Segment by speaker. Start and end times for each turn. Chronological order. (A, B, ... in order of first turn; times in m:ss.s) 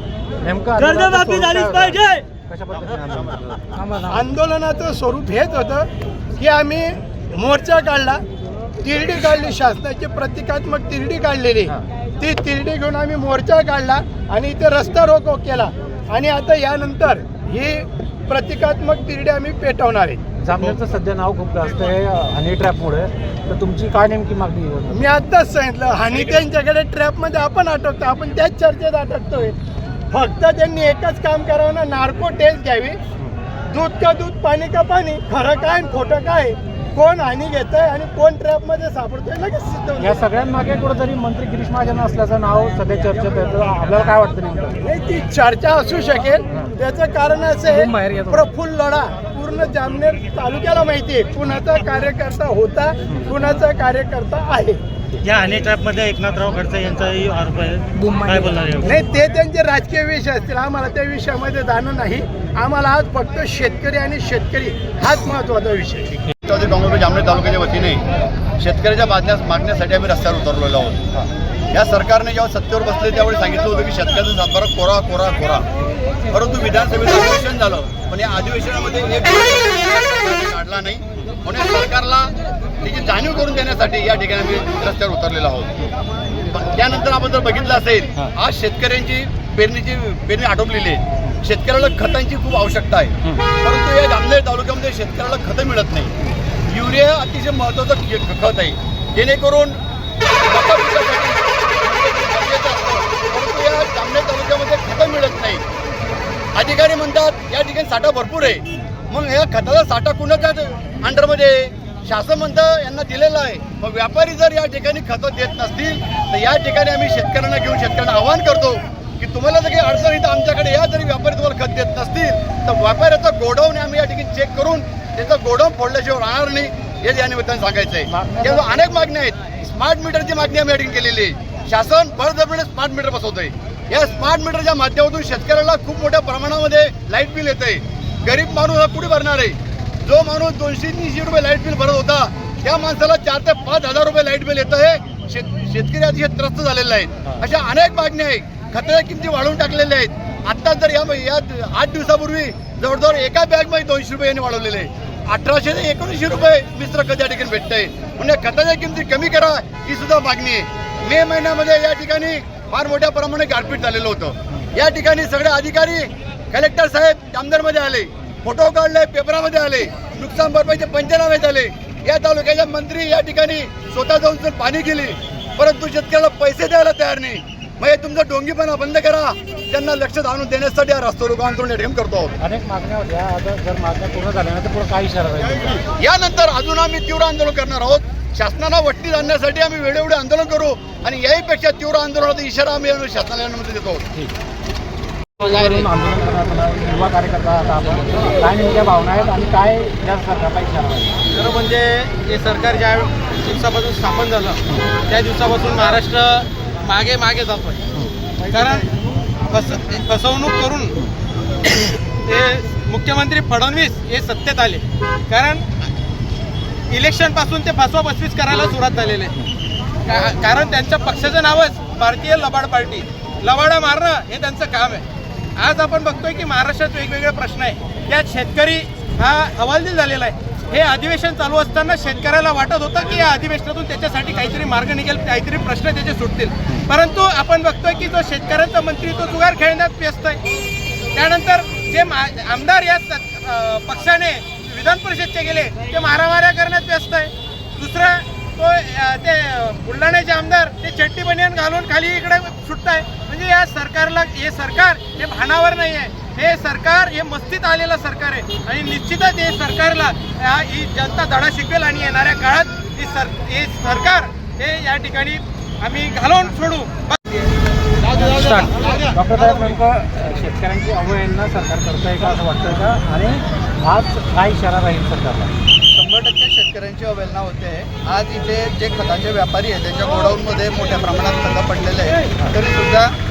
0:00.4-0:04.3 A
0:00.8-0:02.2 B
0:04.1-0:05.9 B
0:06.4-0:08.2 B
0:08.8-0:20.2 B
0:20.4-0:25.1 A
0:24.9-0:29.6 B
0:30.1-0:33.0 B
0:33.7-0:40.2 B
0:40.0-0:44.8 A
0:44.8-0:54.8 B
0:47.7-0:48.4 A
0:55.6-0:58.8 C
0:58.8-1:06.2 B
1:06.5-1:08.0 D
1:08.6-1:11.1 D
1:11.7-1:15.7 D
1:16.3-1:25.7 D
1:26.5-1:36.2 D
1:36.7-1:45.6 D
1:46.6-3:02.4 D
2:08.1-2:08.8 A
3:02.4-3:05.8 A
3:05.9-3:14.2 D
3:15.4-3:21.2 A
3:21.3-3:27.8 E
3:28.5-3:28.9 E
3:29.5-3:31.0 E
3:32.2-3:35.7 E
3:36.9-3:39.4 E
3:40.0-3:45.0 E
3:45.6-4:00.4 E
4:01.1-4:27.2 E
4:28.1-4:35.5 A
4:35.9-4:43.1 F